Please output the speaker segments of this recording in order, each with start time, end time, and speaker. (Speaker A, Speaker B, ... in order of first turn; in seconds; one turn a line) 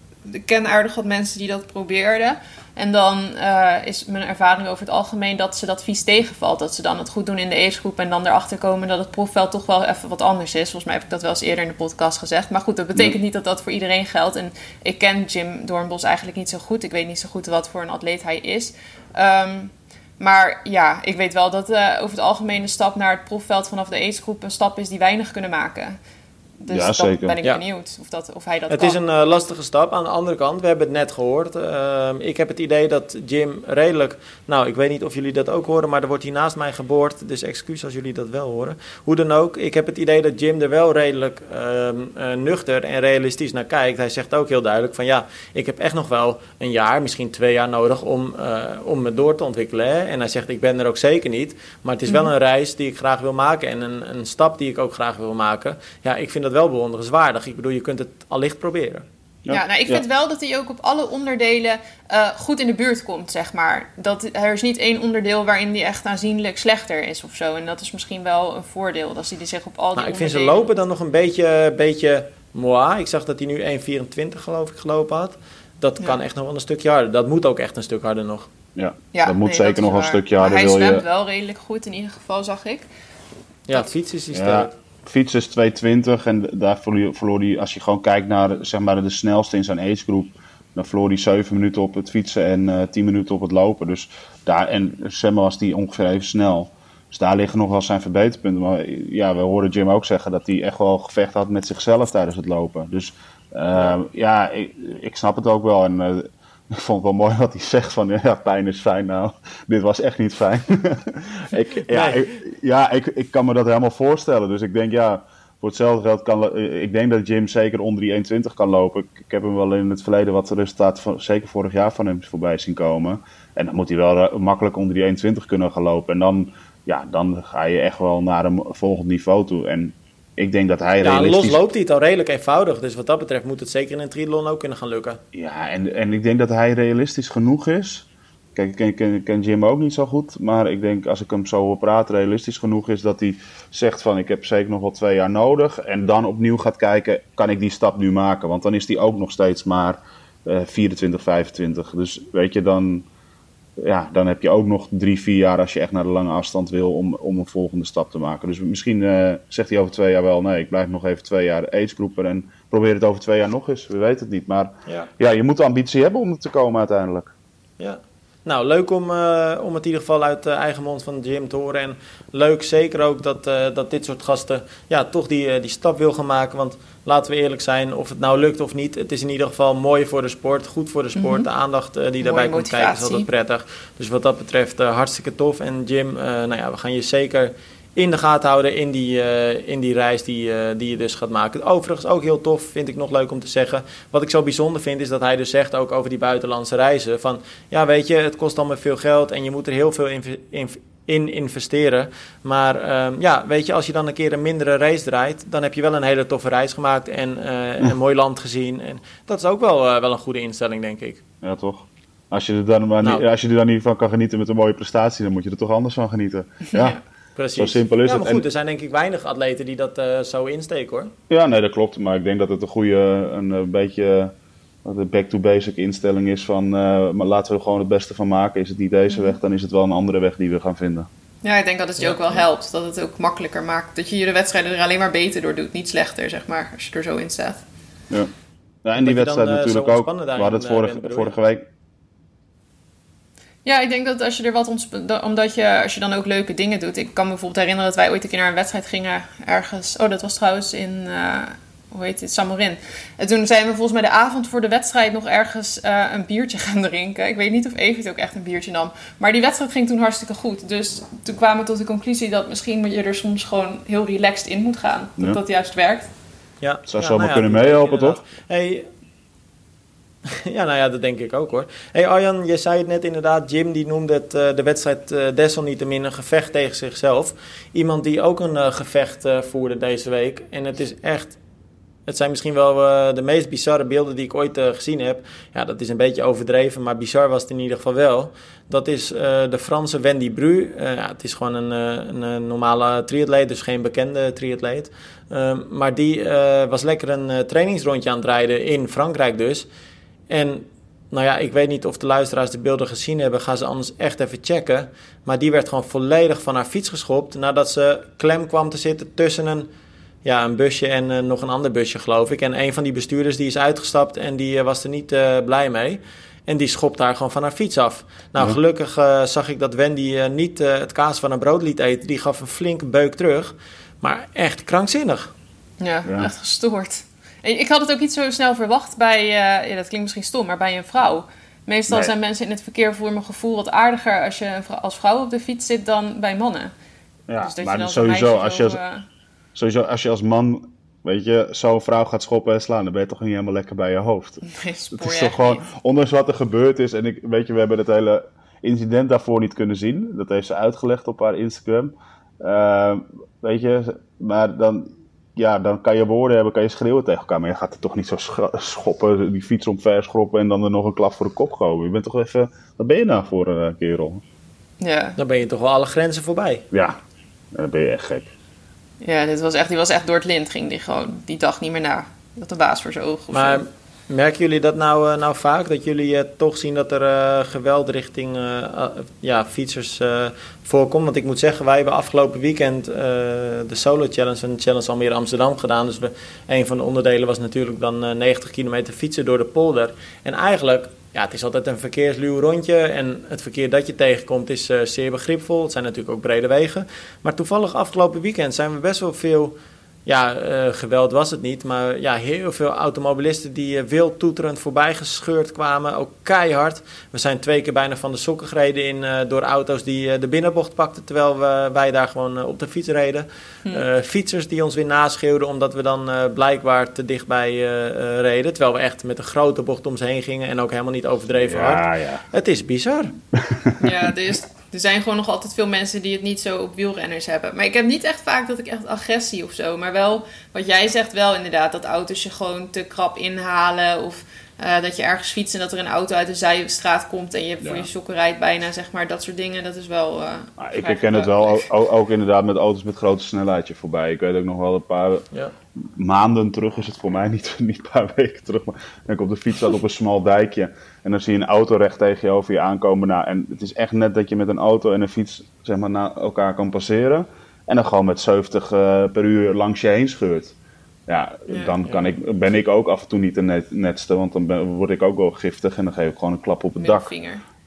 Speaker A: 0.2-26.0
Speaker A: 26.6-29.0
Speaker B: 26.7-27.4
Speaker C: 28.7-59.0
Speaker B: 59.5-60.0
Speaker A: 59.5-70.7
Speaker C: 70.0-78.5
Speaker B: 78.7-81.0
Speaker A: 79.1-82.9
Speaker C: 83.7-84.7
Speaker B: 84.3-131.6
Speaker C: 111.9-112.3
Speaker C: 131.0-135.2
Speaker B: 135.3-153.1
Speaker B: 153.8-167.3
Speaker C: 167.8-211.2
Speaker A: 181.2-181.5
Speaker A: 182.2-183.3
Speaker B: 211.4-217.0
Speaker C: 217.3-221.1
Speaker B: 217.6-218.4
Speaker B: 221.3-224.3
Speaker B: 224.8-231.1
Speaker A: 231.4-237.6
Speaker C: 232.0-232.4
Speaker B: 238.8-241.7
Speaker C: 239.0-241.3
Speaker A: 243.6-266.1
Speaker C: 266.6-268.9
Speaker B: 266.9-268.2
Speaker C: 270.2-281.4
Speaker C: 282.1-299.7
Speaker C: 300.3-309.7
Speaker C: 310.2-325.3
Speaker A: 325.8-336.7
Speaker B: 326.0-326.3
Speaker B: 337.3-338.8
Speaker A: 337.4-339.0
Speaker B: 339.5-344.4
Speaker A: 344.4-345.6
Speaker B: 344.9-364.2
Speaker A: 364.8-365.2
Speaker C: 365.2-366.6
Speaker B: 366.7-367.0
Speaker B: 367.5-368.3
Speaker A: 369.0-373.6
Speaker C: 373.3-399.5
Speaker C: 400.1-423.1
Speaker B: 421.5-422.2
Speaker B: 423.4-423.9
Speaker A: 423.8-441.7
Speaker B: 437.6-437.9
Speaker B: 440.6-445.2
Speaker B: 445.8-460.5
Speaker B: 461.1-467.1
Speaker A: 461.5-461.8
Speaker A: 466.8-467.4